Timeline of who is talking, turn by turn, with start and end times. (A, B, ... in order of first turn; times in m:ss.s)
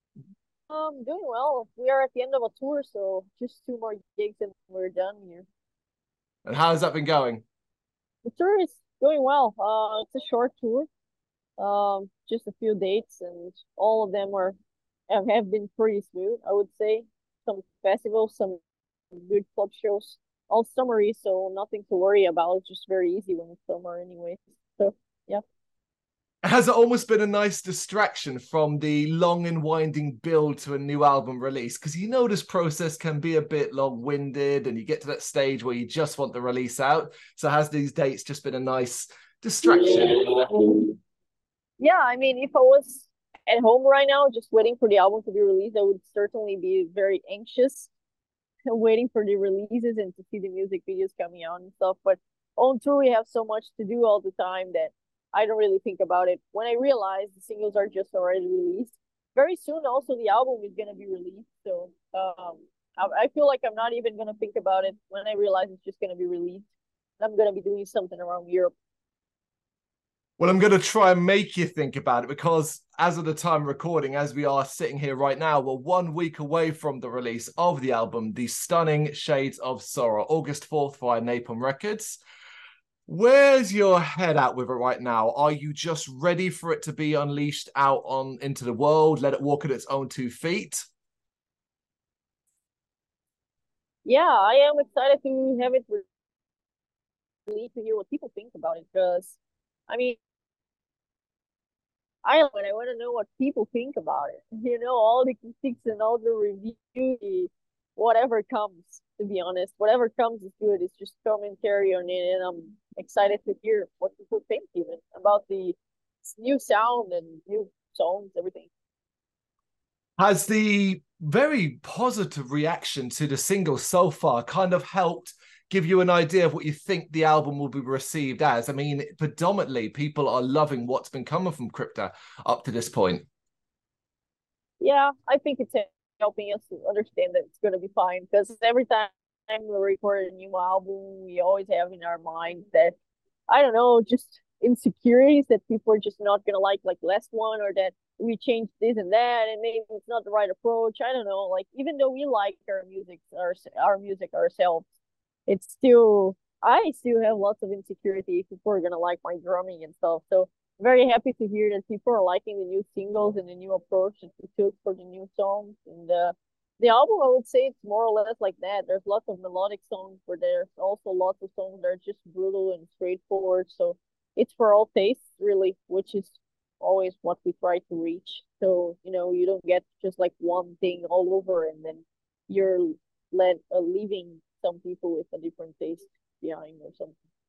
0:00.7-0:05.4 A
0:06.4-0:07.4 B
0:08.2-0:10.9 A
0:11.6-0:14.6 A
0:15.1-0:18.6 A
0:19.1-0:25.4 A
0:26.4-0:40.4 B
0:41.8-0:47.9 A
0:48.6-1:06.6 A
1:07.2-1:08.7 A
1:10.4-1:22.2 B
1:23.1-1:30.9 B
1:34.0-1:36.0 A
1:37.5-1:39.4 A
1:39.9-1:40.2 A
1:42.2-1:58.7 A
2:00.2-2:13.2 B
2:14.8-2:23.0 A
2:23.5-2:34.9 A
2:35.5-3:07.1 A